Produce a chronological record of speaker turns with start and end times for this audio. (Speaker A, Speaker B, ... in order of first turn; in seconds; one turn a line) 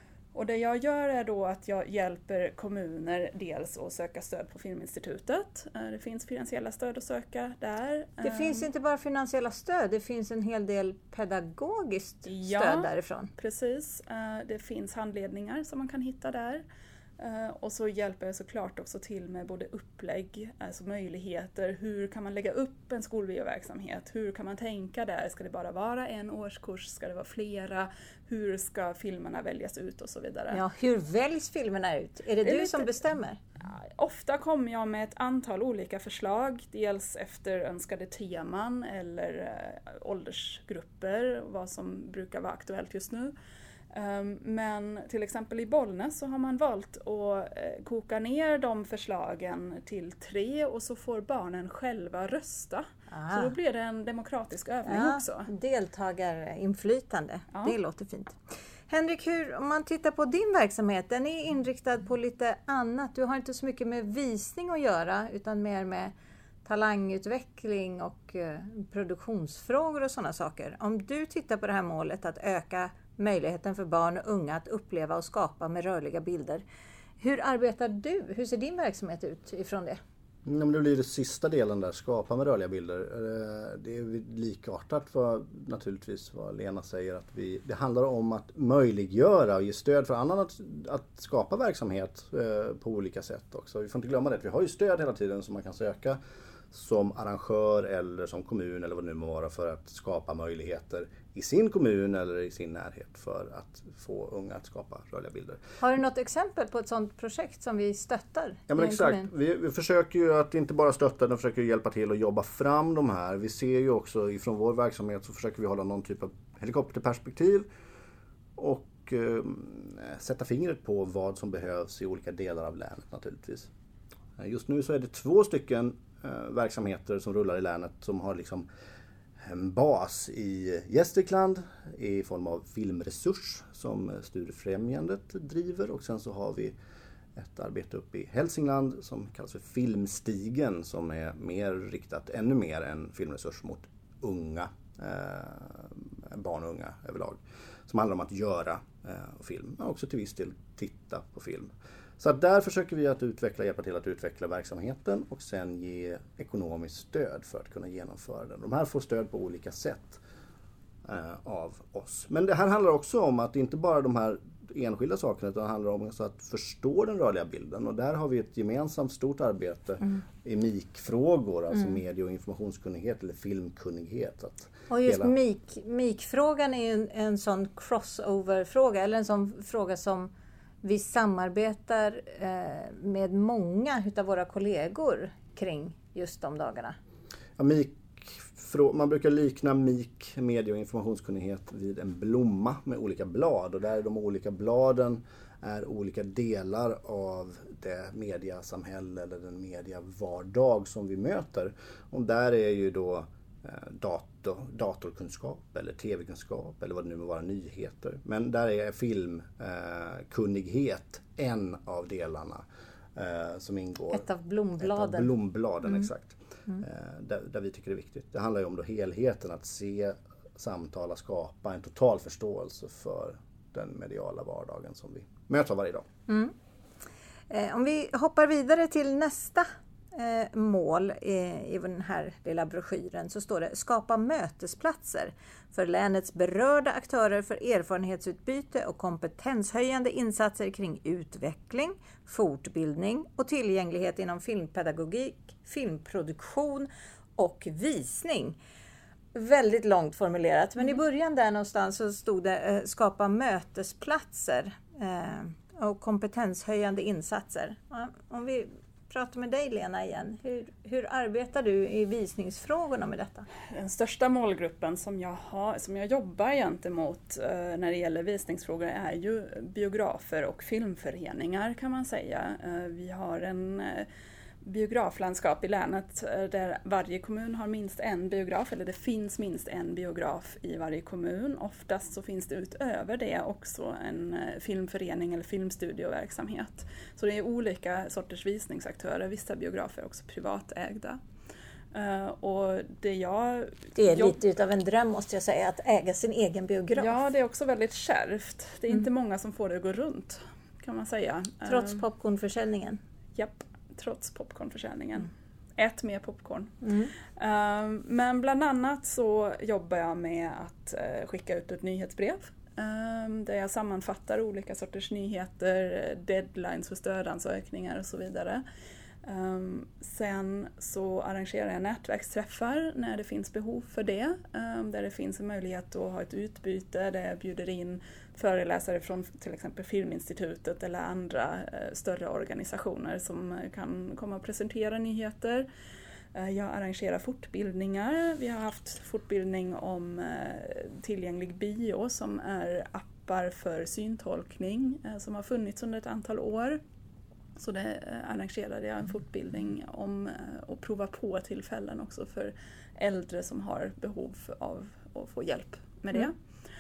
Speaker A: 0.3-8.7
Speaker B: 8.2-13.3
Speaker A: 12.2-16.7
Speaker A: 17.2-30.6
Speaker B: 30.5-33.4
Speaker A: 32.4-32.9
Speaker A: 33.6-43.3
Speaker A: 43.9-55.5
Speaker B: 53.1-53.5
Speaker B: 54.8-66.1
Speaker A: 57.5-57.8
Speaker B: 66.7-76.6
Speaker B: 77.2-80.0
Speaker C: 80.4-96.2
Speaker C: 96.7-105.6
Speaker B: 105.8-109.3
Speaker C: 108.7-117.7
Speaker C: 118.6-123.7
Speaker C: 124.4-128.7
Speaker C: 129.4-136.7
Speaker C: 137.3-160.2
Speaker C: 161.0-175.3
Speaker B: 174.9-180.3
Speaker B: 180.8-187.0
Speaker C: 187.6-214.3
Speaker B: 214.1-215.3
Speaker C: 214.8-226.0
Speaker B: 226.3-226.5
Speaker B: 227.5-248.6
Speaker B: 249.3-263.5
Speaker A: 263.7-274.1
Speaker A: 274.6-291.2
Speaker A: 291.9-294.4
Speaker B: 294.0-297.2
Speaker A: 297.0-302.0
Speaker B: 301.6-303.0
Speaker A: 303.4-306.8
Speaker B: 306.8-307.1
Speaker A: 307.3-318.6
Speaker A: 319.2-335.7
Speaker A: 336.3-346.8
Speaker A: 347.6-356.4